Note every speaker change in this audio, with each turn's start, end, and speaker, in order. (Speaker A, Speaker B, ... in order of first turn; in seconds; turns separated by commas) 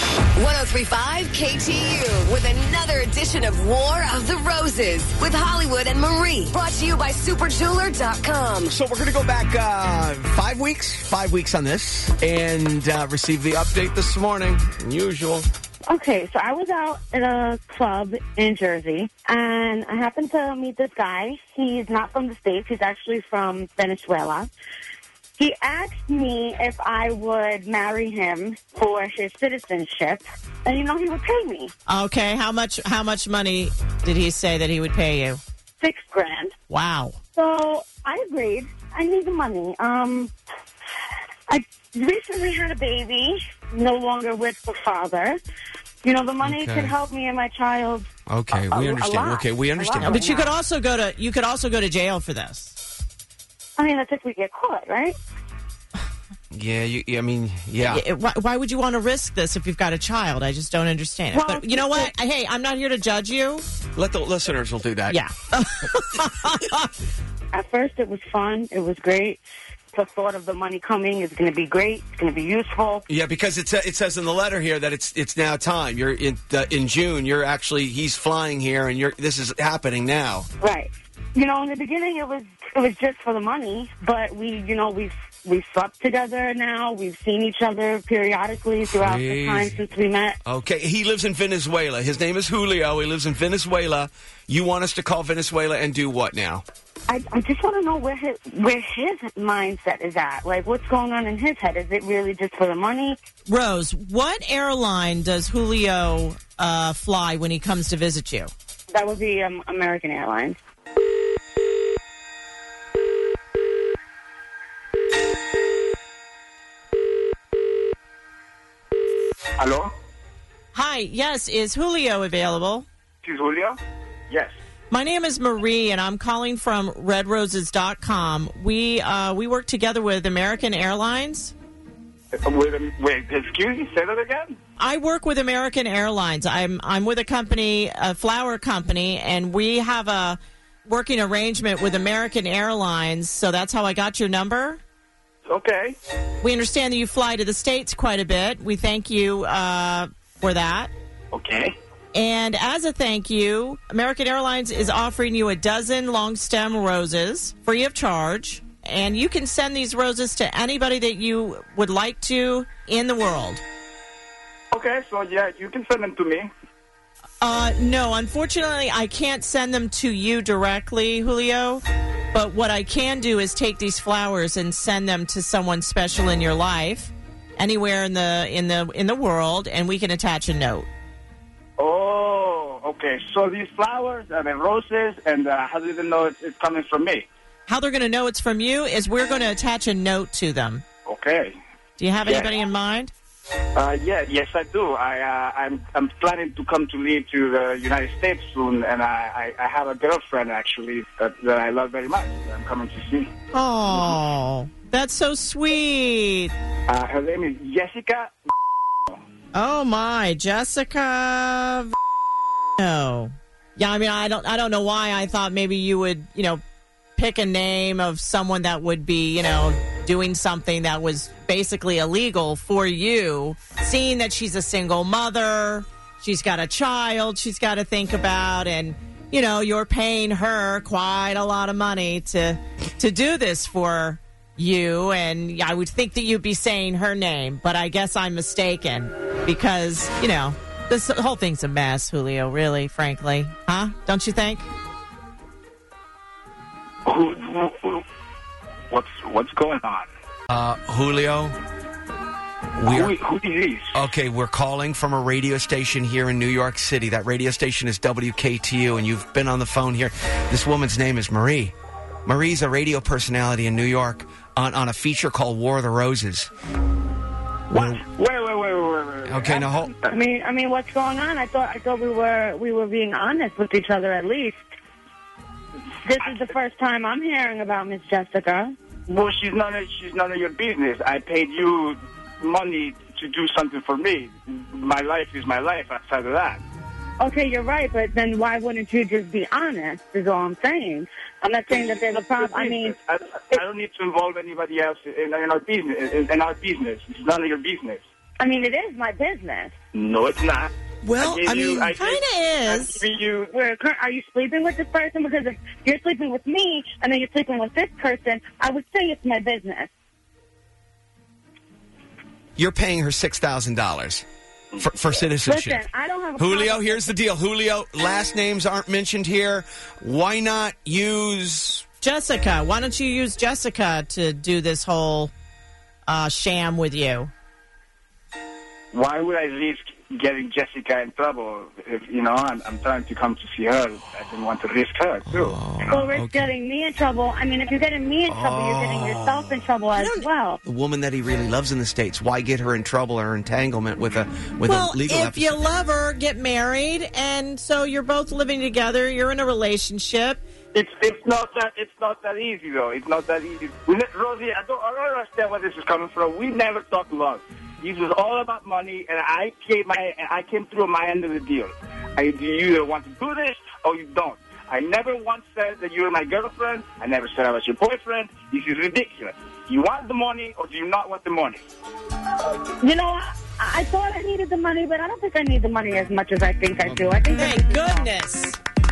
Speaker A: 0.3-8.7, Speaker B: 8.7-15.5, Speaker C: 15.9-24.5, Speaker C: 25.4-31.7, Speaker D: 31.9-35.4, Speaker C: 35.8-36.5, Speaker D: 36.7-37.2, Speaker C: 37.4-40.3, Speaker C: 41.5-45.4, Speaker C: 46.0-50.5, Speaker B: 46.4-46.9, Speaker B: 48.3-50.2, Speaker D: 50.0-52.7, Speaker C: 53.8-55.1, Speaker B: 56.5-58.0, Speaker D: 57.8-63.6, Speaker C: 61.3-62.1, Speaker B: 63.9-65.2, Speaker D: 65.1-66.8, Speaker C: 67.5-69.4, Speaker C: 69.9-73.0, Speaker B: 73.1-80.5, Speaker C: 80.6-90.4, Speaker B: 88.9-89.7, Speaker B: 90.4-96.6, Speaker C: 97.1-103.2, Speaker D: 103.5-108.5, Speaker C: 108.9-110.6, Speaker E: 119.6-119.9, Speaker D: 120.7-122.8, Speaker E: 123.2-123.8, Speaker D: 124.9-131.5, Speaker E: 132.4-134.6, Speaker D: 134.8-144.8, Speaker E: 145.5-145.9, Speaker D: 146.4-150.9, Speaker E: 151.3-151.7, Speaker D: 152.1-163.6, Speaker E: 164.7-166.5, Speaker D: 167.4-180.9, Speaker E: 181.8-187.2, Speaker D: 187.7-190.8, Speaker E: 191.1-191.5, Speaker D: 192.0-193.1, Speaker E: 192.2-192.5, Speaker E: 193.7-203.3, Speaker D: 203.5-206.5, Speaker E: 206.9-208.3, Speaker D: 209.5-211.9, Speaker D: 212.8-216.6, Speaker D: 217.2-244.7, Speaker E: 247.1-248.0, Speaker E: 248.9-250.1, Speaker B: 250.5-251.6, Speaker B: 252.8-253.1, Speaker E: 252.9-253.9, Speaker B: 253.9-266.5, Speaker B: 267.7-268.0, Speaker E: 267.7-270.2, Speaker B: 269.3-269.9, Speaker C: 270.1-274.6, Speaker C: 276.0-278.7, Speaker E: 279.1-286.6, Speaker C: 287.2-292.9, Speaker E: 291.7-298.0, Speaker C: 298.4-299.7, Speaker E: 299.9-303.5, Speaker B: 301.0-301.9, Speaker D: 301.9-303.0, Speaker C: 303.5-309.9, Speaker B: 312.6-314.2, Speaker B: 314.8-315.8, Speaker C: 315.4-317.1, Speaker B: 316.4-321.8, Speaker D: 322.0-325.3, Speaker D: 326.1-327.3, Speaker E: 328.9-336.0, Speaker B: 335.3-336.5, Speaker C: 335.9-340.6, Speaker B: 338.3-339.6, Speaker D: 339.9-340.3, Speaker B: 340.6-345.6, Speaker D: 344.6-350.4, Speaker E: 350.7-371.6, Speaker C: 372.8-378.1, Speaker B: 376.8-377.1, Speaker D: 377.3-378.6